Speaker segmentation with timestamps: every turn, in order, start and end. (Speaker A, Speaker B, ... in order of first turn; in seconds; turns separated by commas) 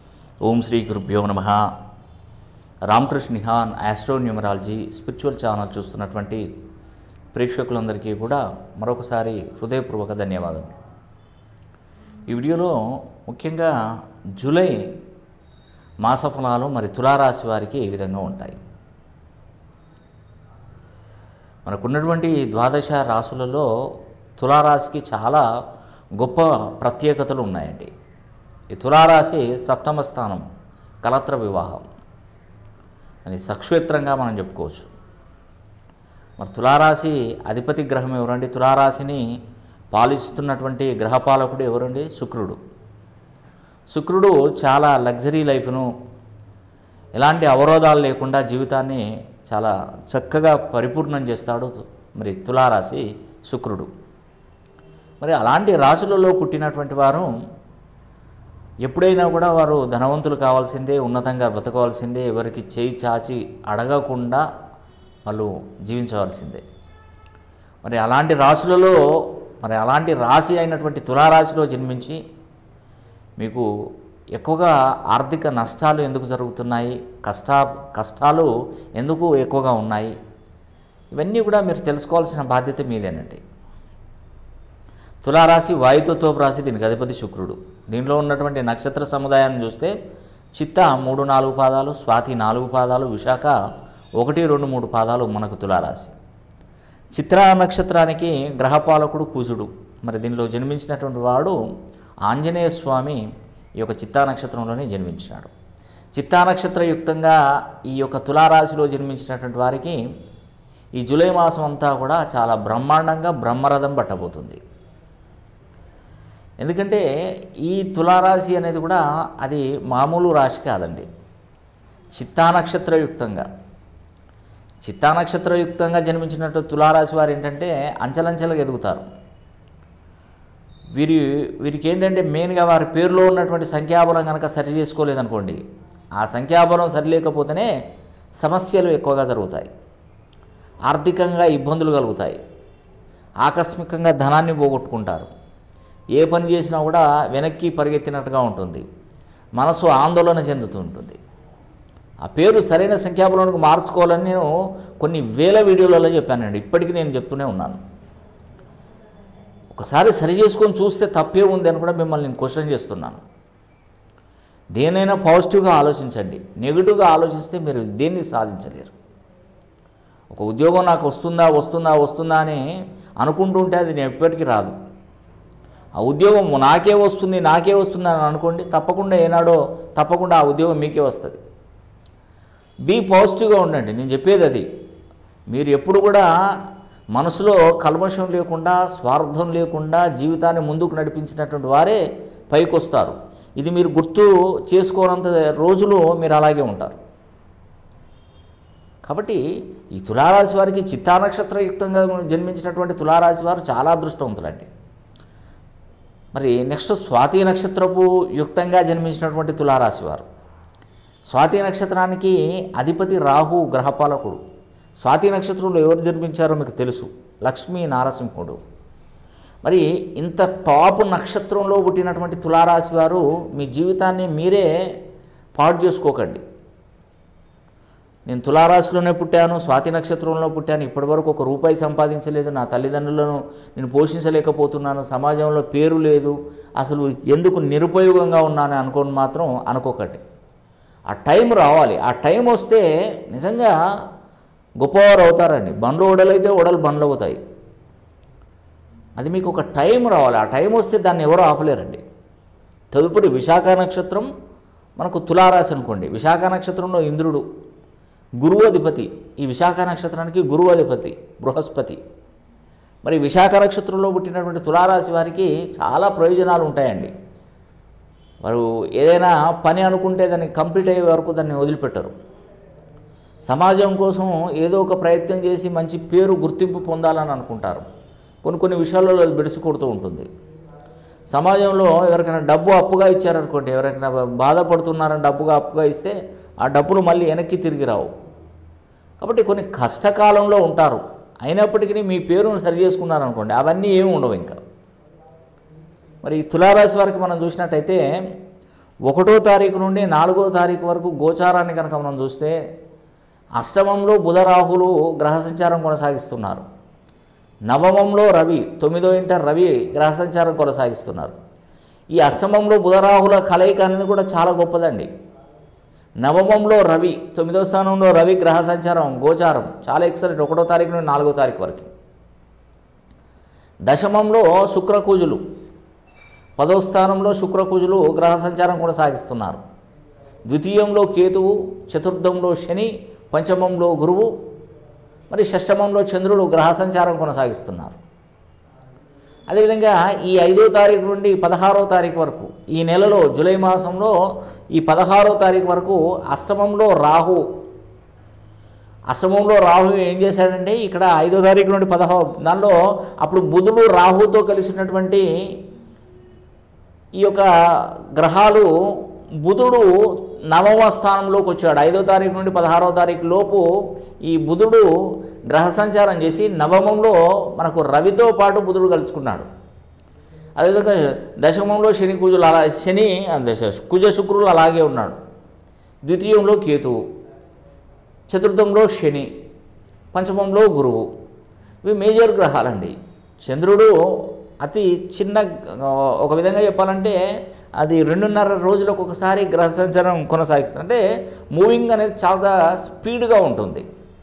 Speaker A: 0.4-1.6, Speaker A: 2.9-6.5, Speaker A: 7.3-10.7, Speaker A: 12.3-13.7, Speaker A: 14.4-14.8, Speaker A: 16.0-18.6, Speaker A: 21.7-23.7, Speaker A: 24.4-25.4, Speaker A: 26.2-27.9, Speaker A: 28.7-30.4, Speaker A: 31.0-31.9, Speaker A: 33.3-34.9, Speaker A: 36.4-39.2, Speaker A: 39.9-42.6, Speaker A: 43.9-45.9, Speaker A: 47.2-53.9, Speaker A: 55.2-57.3, Speaker A: 58.9-64.4, Speaker A: 65.3-66.6, Speaker A: 67.8-69.0, Speaker A: 69.6-72.2, Speaker A: 73.4-73.7, Speaker A: 74.3-80.2, Speaker A: 81.2-83.4, Speaker A: 85.2-89.9, Speaker A: 90.5-93.5, Speaker A: 94.2-96.2, Speaker A: 97.2-101.6, Speaker A: 102.3-103.2, Speaker A: 103.8-105.5, Speaker A: 106.2-107.4, Speaker A: 107.9-110.0, Speaker A: 111.0-114.6, Speaker A: 116.6-117.0, Speaker A: 117.6-121.1, Speaker A: 122.2-123.5, Speaker A: 124.8-129.1, Speaker A: 130.9-135.6, Speaker A: 136.2-137.7, Speaker A: 138.4-139.7, Speaker A: 140.9-142.4, Speaker A: 143.4-145.3, Speaker A: 146.2-148.8, Speaker A: 149.6-151.2, Speaker A: 152.2-154.5, Speaker A: 155.0-157.8, Speaker A: 159.7-163.2, Speaker A: 164.8-168.9, Speaker A: 170.3-172.7, Speaker A: 173.2-174.8, Speaker A: 176.0-181.4, Speaker A: 182.9-184.7, Speaker A: 185.5-186.3, Speaker A: 187.2-192.0, Speaker A: 192.5-197.0, Speaker A: 199.1-199.4, Speaker A: 199.9-204.7, Speaker A: 206.3-210.2, Speaker A: 211.3-214.4, Speaker A: 215.0-218.6, Speaker A: 219.7-224.7, Speaker A: 225.6-226.4, Speaker A: 228.3-240.2, Speaker A: 241.1-243.7, Speaker A: 244.8-247.4, Speaker A: 249.2-252.0, Speaker A: 252.9-254.3, Speaker A: 255.0-257.4, Speaker A: 258.4-262.0, Speaker A: 263.0-267.1, Speaker A: 268.4-272.1, Speaker A: 273.5-277.9, Speaker A: 278.4-280.3, Speaker A: 281.3-288.1, Speaker A: 289.2-294.6, Speaker A: 296.2-298.0, Speaker A: 299.1-302.6, Speaker A: 303.6-306.6, Speaker A: 307.7-311.4, Speaker A: 312.2-315.1, Speaker A: 316.2-321.9, Speaker A: 323.9-325.4, Speaker A: 326.6-329.6, Speaker A: 330.5-334.3, Speaker A: 335.3-338.0, Speaker A: 339.5-344.1, Speaker A: 344.8-347.4, Speaker A: 349.1-355.2, Speaker A: 357.2-357.5, Speaker A: 358.1-358.7, Speaker A: 359.4-359.9, Speaker A: 360.5-363.6, Speaker A: 364.2-364.9, Speaker A: 365.5-369.5, Speaker A: 370.6-375.2, Speaker A: 376.1-377.0, Speaker A: 378.3-379.3, Speaker A: 380.1-381.0, Speaker A: 381.8-387.2, Speaker A: 387.8-391.0, Speaker A: 391.5-393.9